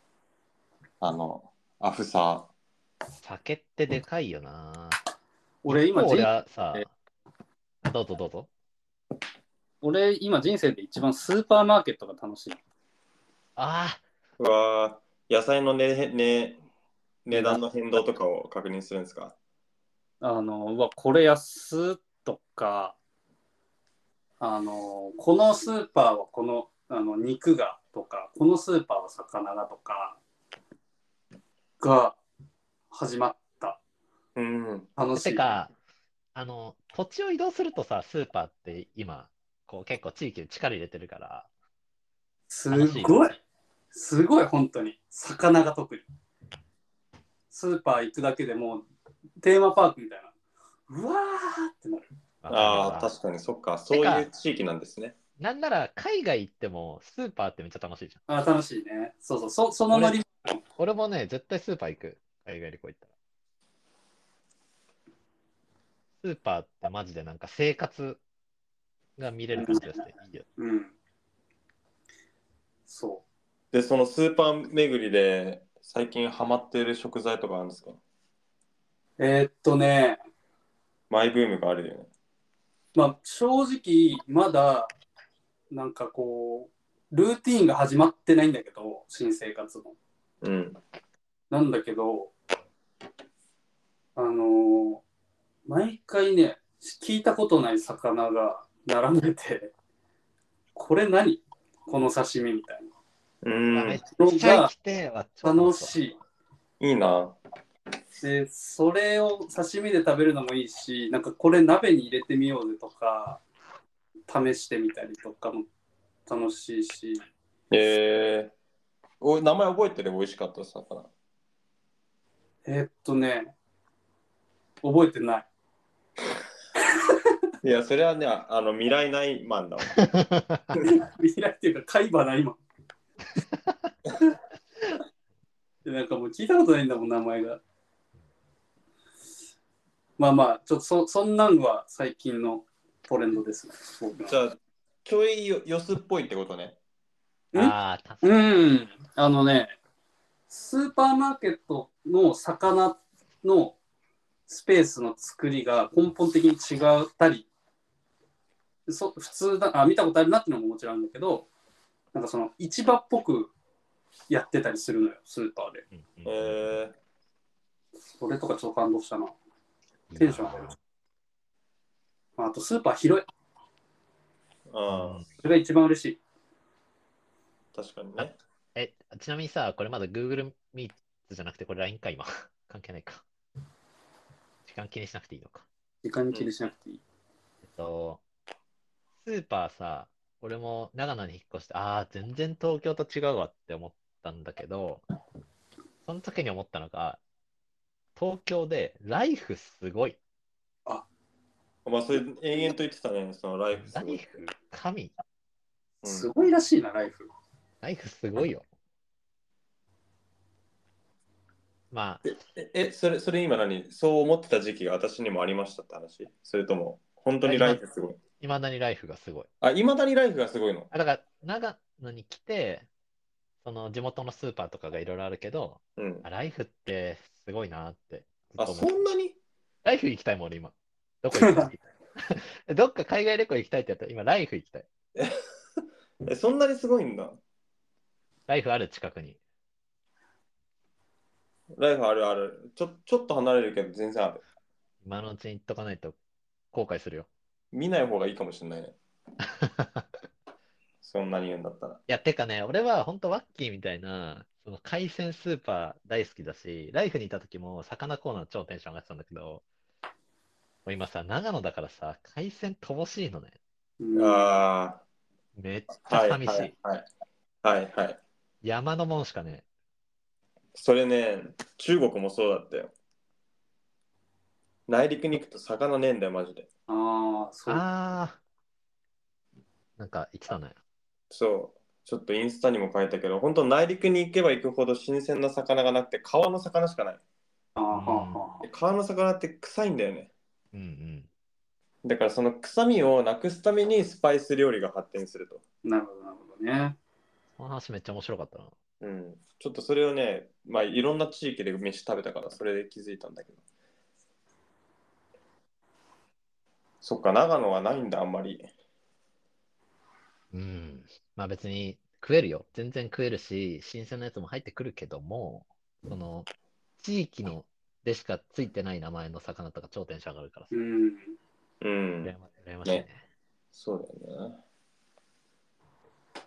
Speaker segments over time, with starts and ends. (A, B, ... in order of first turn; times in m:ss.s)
0:01.0-0:02.5 A
0:03.2-0:05.0 B
0:05.6-0:06.8 C
0:05.7-0:06.9 B
0:07.8-0:08.5 B
0:09.8-0:12.6 C
0:13.6-0:14.0 B
0:14.4-0:16.6 A
0:17.2-0:19.3 A
0:20.2-0:23.0 C
0:24.4-0:30.2 C
0:31.8-0:32.2 C
0:32.9-0:33.8 C
0:34.4-0:34.9 A
0:35.0-0:35.4 C
0:35.2-0:35.7 B
0:36.3-0:41.5 B
0:42.5-0:43.4 C
0:42.7-0:43.4 B
0:43.9-0:46.0 C
0:47.5-0:48.8 C
0:49.4-0:50.3 C
0:50.9-0:52.0 C
0:52.4-0:53.1 B
0:52.5-0:55.1 A
0:53.9-0:54.3 B
0:55.4-0:58.2 B
0:58.3-1:00.6 C
0:59.9-1:00.2 B
1:00.8-1:03.1 B
1:06.2-1:08.2 B
1:09.2-1:10.4 B
1:09.5-1:10.0 C
1:10.6-1:10.9 C
1:12.9-1:13.2 C
1:13.7-1:18.0 A
1:19.2-1:20.2 C
1:21.1-1:22.1 A
1:22.9-1:24.9 C
1:25.7-1:30.0 C
1:30.4-1:30.8 A
1:31.5-1:32.3 C
1:34.2-1:35.0 C
1:35.7-1:39.7 C
1:40.7-1:42.9 C
1:43.4-1:44.0 A
1:43.7-1:45.9 B
1:44.2-1:44.7 C
1:45.4-1:46.2 C
1:46.8-1:47.4 A
1:48.2-1:53.4 C
1:54.3-1:55.7 C
1:56.3-1:57.2 C
1:57.7-1:58.5 A
1:59.2-2:01.1 A
2:02.6-2:03.5 C
2:04.8-2:05.5 C
2:07.6-2:10.1 A
2:10.0-2:10.6 B
2:10.8-2:12.6 C
2:13.6-2:13.9 B
2:15.8-2:17.6 C
2:20.2-2:24.4 C
2:24.2-2:26.8 A
2:27.5-2:29.8 C
2:27.5-2:28.5 B
2:30.5-2:33.8 C
2:34.5-2:37.5 C
2:38.9-2:41.5 C
2:42.1-2:43.5 C
2:44.3-2:45.8 C
2:45.9-2:46.8 B
2:46.2-2:46.9 A
2:48.2-2:49.4 C
2:50.1-2:50.8 B
2:50.2-2:50.7 C
2:52.4-2:53.2 C
2:54.7-2:55.2 A
2:54.9-2:55.3 B
2:55.4-2:56.2 C
2:57.7-2:58.3 A
2:58.2-3:03.2 B
3:04.6-3:05.6 B
3:06.0-3:07.0 C
3:07.6-3:08.2 B
3:09.2-3:15.0 B
3:16.0-3:17.2 B
3:18.2-3:20.2 B
3:21.8-3:24.4 A
3:23.8-3:25.1 B
3:26.0-3:27.3 C
3:26.0-3:26.3 A
3:27.8-3:28.6 B
3:31.9-3:32.2 B
3:32.3-3:38.2 A
3:37.4-3:37.8 B
3:38.4-3:39.5 B
3:39.6-3:40.9 A
3:40.9-3:42.8 B
3:43.6-3:48.9 B
3:46.0-3:46.2 A
3:48.6-3:49.4 A
3:49.8-3:54.9 B
3:51.4-3:51.7 C
3:56.2-3:57.4 A
3:58.5-3:59.4 B
4:01.8-4:04.4 A
4:05.0-4:06.2 B
4:06.7-4:07.3 B
4:07.7-4:09.0 A
4:09.6-4:10.1 B
4:11.0-4:12.0 A
4:12.1-4:19.6 B
4:20.8-4:23.5 B
4:24.0-4:24.5 C
4:24.1-4:25.0 A
4:25.6-4:26.7 B
4:26.1-4:27.0 A
4:27.6-4:28.2 A
4:28.6-4:29.6 B
4:30.7-4:32.9 A
4:34.9-4:36.7 A
4:36.9-4:37.8 C
4:37.7-4:38.4 B
4:40.0-4:40.8 B
4:41.3-4:47.2 A
4:47.8-4:48.6 C
4:47.9-4:48.6 B
4:48.6-4:50.3 A
4:50.7-4:51.3 B
4:52.0-4:55.6 A
4:55.8-4:57.0 C
4:57.6-4:58.7 B
4:59.0-5:03.6 A
5:07.0-5:08.7 A
5:10.5-5:20.7 B
5:20.7-5:21.4 C
5:21.8-5:22.3 A
5:22.2-5:23.2 B
5:23.7-5:24.6 A